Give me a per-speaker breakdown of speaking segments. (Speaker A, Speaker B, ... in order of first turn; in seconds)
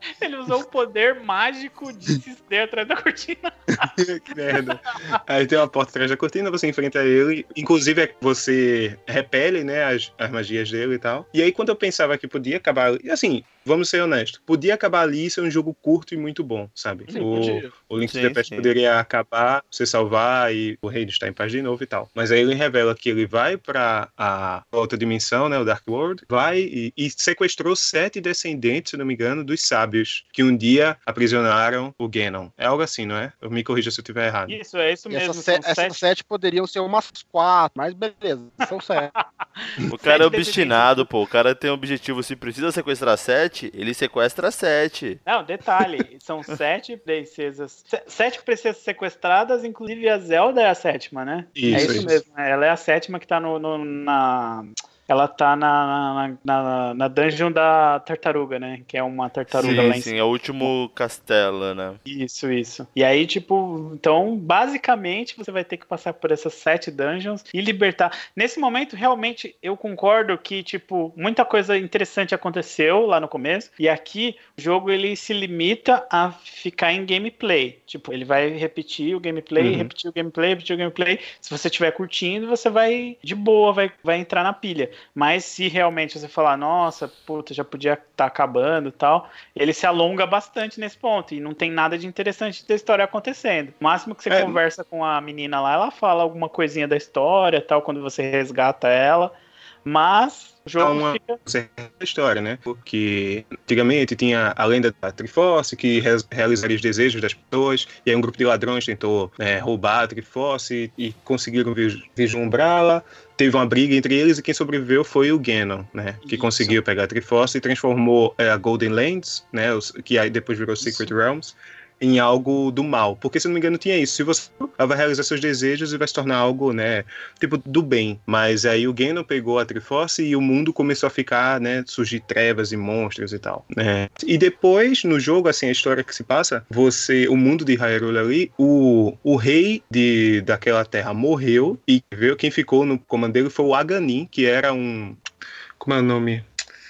Speaker A: 0.2-3.9, 17.1-17.6, 34.5-36.0, 39.1-41.1, 45.2-60.6, 62.0-99.3, 99.8-101.4, 116.2-116.8
Speaker B: 3.8-34.6, 51.5-52.1, 59.6-59.9, 79.6-79.9, 94.3-94.6, 100.8-145.2, 145.8-146.4
Speaker C: 17.1-17.7, 35.1-39.1, 51.7-52.0, 120.8-121.1
Speaker D: 18.0-18.7, 39.9-45.2, 59.5-62.0